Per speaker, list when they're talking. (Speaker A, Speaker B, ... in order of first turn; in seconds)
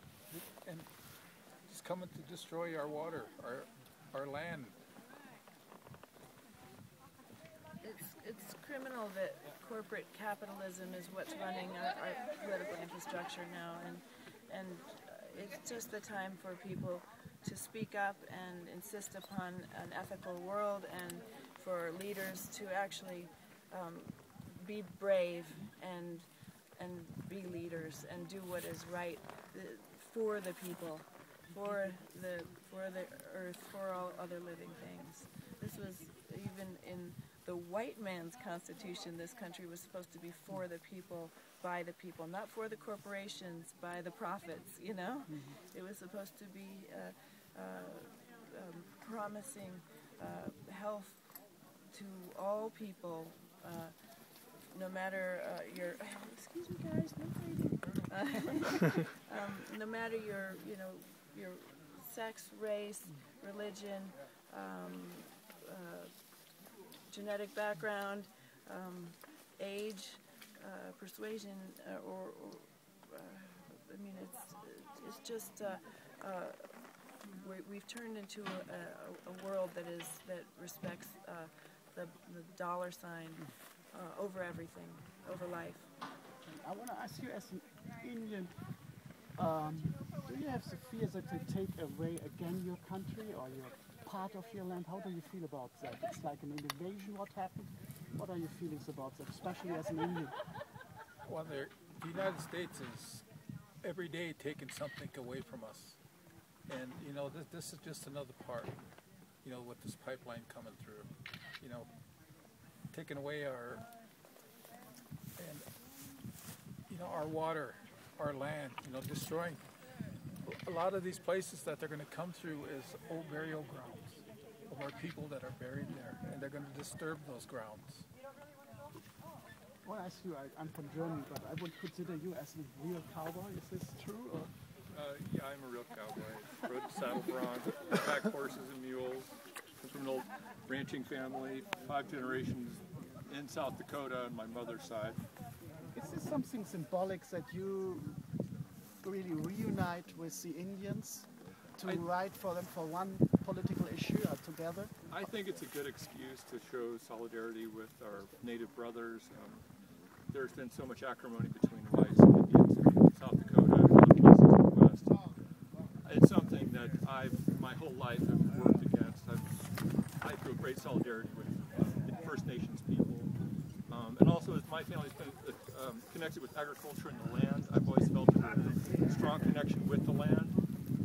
Speaker A: 0.3-0.9, 1.7-4.8, 101.3-103.2, 103.8-106.0, 106.7-108.8, 109.4-111.1, 111.6-111.9, 112.9-113.8, 115.4-115.7, 116.9-119.6, 120.5-128.1
Speaker B: 7.8-51.2, 51.9-54.0, 54.6-66.1, 67.1-76.6, 77.4-85.9
Speaker C: 86.5-88.5, 89.4-100.3, 129.8-134.5, 145.9-148.2, 149.0-154.9
Speaker D: 134.9-145.2, 155.1-159.6, 160.3-165.2, 166.1-169.5, 170.2-173.3, 173.9-180.6